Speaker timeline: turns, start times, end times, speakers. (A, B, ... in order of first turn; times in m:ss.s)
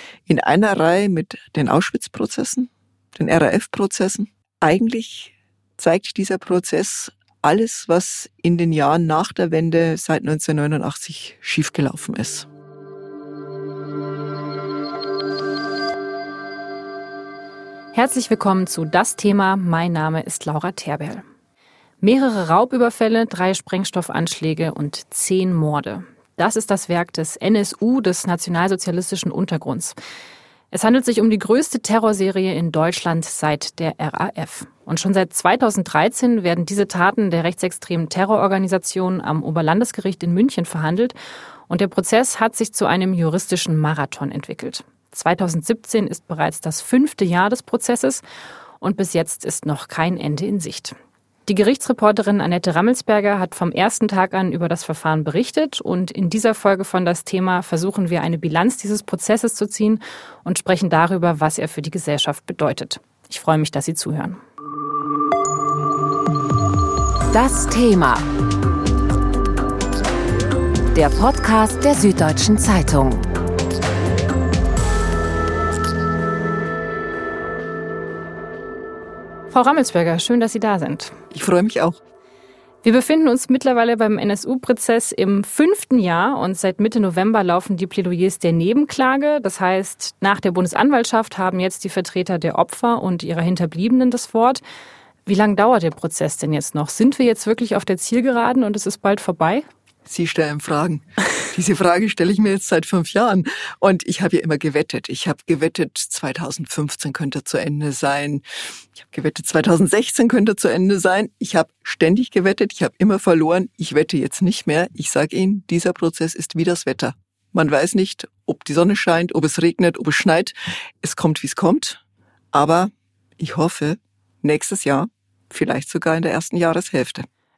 0:00.3-0:12.5 A
0:17.9-0:21.2 B
0:22.0-0:30.0 B
0:30.7-0:41.1 B
0:41.7-0:48.2 B
0:48.8-1:04.4 B
1:07.3-1:08.3 C
1:10.9-1:13.3 C
1:19.5-1:21.2 B
1:21.3-1:22.0 A
1:22.8-1:34.6 B
1:35.2-1:39.6 B
1:40.0-1:48.4 A
1:49.0-2:02.0 A
2:02.5-2:07.3 A